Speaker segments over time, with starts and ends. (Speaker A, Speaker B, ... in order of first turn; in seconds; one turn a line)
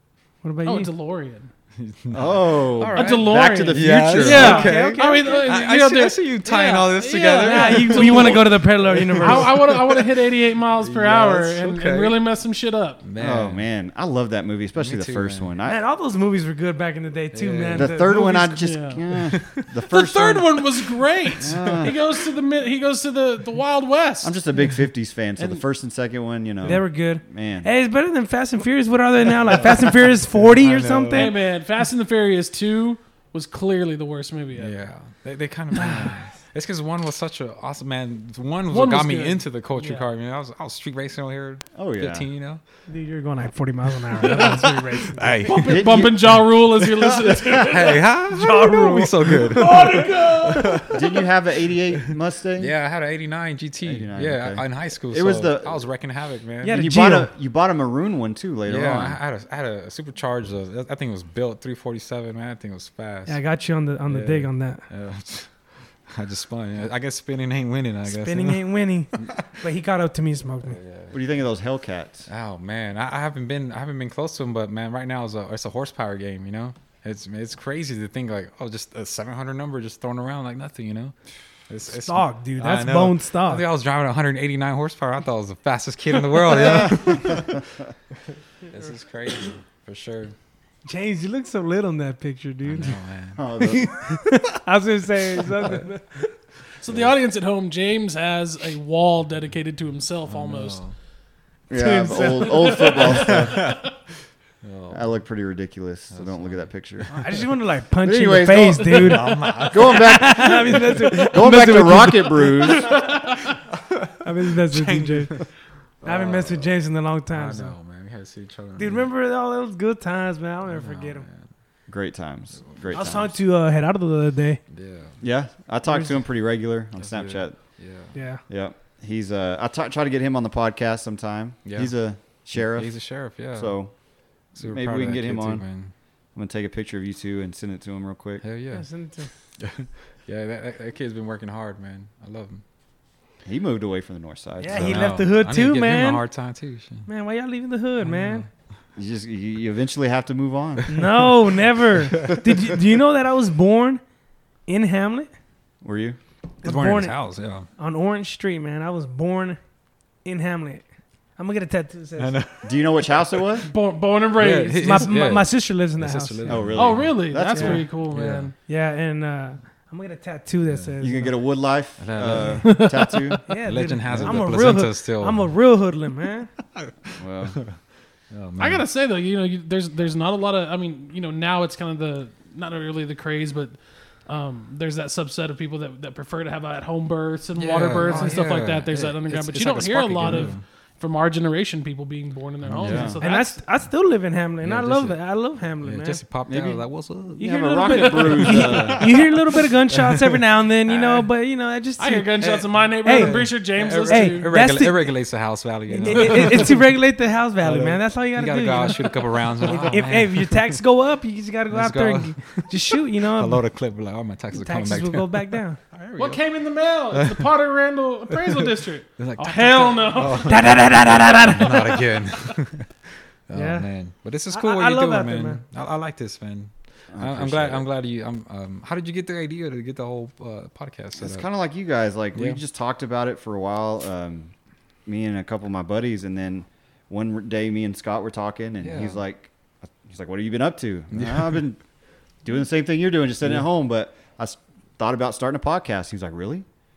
Speaker A: 0.4-0.9
Speaker B: 0.7-1.5
Speaker C: 1.8-10.1
Speaker D: 2.1-4.7
Speaker B: 2.9-13.0
Speaker A: 4.3-5.6
Speaker A: 7.4-9.6
Speaker C: 10.7-12.2
Speaker C: 13.0-13.7
Speaker D: 13.2-15.8
Speaker C: 14.8-15.5
Speaker A: 15.7-18.6
Speaker C: 17.3-18.0
Speaker D: 17.7-20.7
Speaker B: 18.6-19.0
Speaker C: 19.3-19.7
Speaker B: 19.6-24.4
Speaker D: 21.4-22.0
Speaker D: 24.2-27.7
Speaker B: 25.4-25.6
Speaker A: 26.6-31.4
Speaker C: 30.3-31.4
Speaker B: 31.1-34.8
Speaker C: 34.6-42.6
Speaker B: 38.7-39.4
Speaker D: 41.8-42.3
Speaker A: 42.9-45.4
Speaker C: 44.2-44.6
Speaker C: 45.1-46.1
Speaker B: 45.5-48.0
Speaker D: 45.6-46.4
Speaker C: 47.0-51.0
Speaker D: 47.3-47.8
Speaker A: 48.3-50.0
Speaker B: 49.4-51.2
Speaker D: 50.9-52.7
Speaker C: 52.6-56.9
Speaker D: 53.8-55.9
Speaker A: 56.6-57.3
Speaker D: 56.7-59.2
Speaker C: 58.7-63.4
Speaker A: 63.3-64.9
Speaker C: 64.1-69.5
Speaker A: 68.1-70.8
Speaker C: 70.7-71.2
Speaker D: 71.1-72.3
Speaker C: 72.3-81.2
Speaker C: 81.7-87.6
Speaker A: 81.9-83.7
Speaker D: 86.6-87.4
Speaker C: 88.7-90.3
Speaker A: 90.9-93.0
Speaker C: 92.7-94.4
Speaker D: 93.4-93.9
Speaker A: 93.9-96.3
Speaker C: 95.6-95.9
Speaker B: 96.8-100.8
Speaker C: 100.3-100.9
Speaker D: 101.7-103.7
Speaker A: 101.7-103.3
Speaker B: 102.7-103.8
Speaker C: 103.3-103.9
Speaker C: 104.6-105.2
Speaker D: 104.9-107.2
Speaker C: 106.1-107.3
Speaker A: 107.1-113.0
Speaker D: 108.0-113.1
Speaker C: 108.9-111.2
Speaker B: 112.9-113.4
Speaker C: 113.8-115.5
Speaker A: 114.2-115.5
Speaker A: 116.0-117.8
Speaker C: 116.0-116.7
Speaker C: 117.3-119.1
Speaker A: 118.8-121.3
Speaker C: 120.7-121.5
Speaker D: 121.9-123.4
Speaker C: 122.6-123.0
Speaker A: 122.9-124.6
Speaker C: 124.7-125.2
Speaker D: 125.2-127.8
Speaker A: 125.8-126.2
Speaker C: 127.0-128.2
Speaker A: 128.1-128.4
Speaker D: 128.5-135.7
Speaker C: 131.7-133.8
Speaker C: 134.5-135.9
Speaker D: 136.3-138.4
Speaker C: 138.4-138.9
Speaker A: 138.7-139.3
Speaker C: 139.6-142.6
Speaker D: 143.4-145.2
Speaker A: 144.6-146.2
Speaker C: 144.7-147.1
Speaker A: 147.1-148.5
Speaker C: 148.0-148.5
Speaker D: 149.0-151.0
Speaker A: 150.9-154.0
Speaker C: 152.3-152.6
Speaker A: 154.7-155.3
Speaker D: 155.8-156.2
Speaker A: 156.6-157.2
Speaker C: 156.6-157.7
Speaker A: 157.8-159.6
Speaker A: 160.2-162.4
Speaker C: 162.2-162.9
Speaker D: 162.6-163.7
Speaker B: 163.7-165.1
Speaker C: 164.4-167.2
Speaker A: 164.8-166.5
Speaker D: 166.5-167.9
Speaker B: 166.8-168.5
Speaker A: 167.5-167.8
Speaker C: 168.1-168.5
Speaker A: 168.7-171.3
Speaker C: 170.7-170.9
Speaker D: 171.0-173.5
Speaker C: 172.0-172.9
Speaker B: 172.7-173.2
Speaker A: 173.5-176.5
Speaker C: 173.6-175.5
Speaker D: 174.0-174.5
Speaker D: 177.2-177.6
Speaker C: 178.3-178.9
Speaker B: 178.6-193.6
Speaker C: 187.6-190.6
Speaker A: 188.1-188.4
Speaker C: 192.6-193.2
Speaker D: 192.8-193.2
Speaker A: 193.2-196.2
Speaker C: 194.6-195.2
Speaker C: 195.8-200.2
Speaker D: 196.5-199.3
Speaker A: 197.4-202.4
Speaker B: 202.0-204.5
Speaker C: 202.4-206.9
Speaker A: 203.0-205.2
Speaker A: 205.9-213.6
Speaker B: 206.1-206.7
Speaker C: 207.6-210.8
Speaker C: 211.7-216.4
Speaker A: 214.5-215.8
Speaker B: 216.2-221.2
Speaker C: 217.1-217.5
Speaker C: 218.3-218.7
Speaker C: 219.2-231.5
Speaker A: 219.7-221.8
Speaker A: 223.5-223.9
Speaker A: 224.5-225.6
Speaker D: 227.1-227.9
Speaker D: 231.2-234.5
Speaker C: 232.3-232.6
Speaker D: 235.1-241.8
Speaker C: 238.8-239.2
Speaker C: 241.1-241.6
Speaker D: 242.4-246.7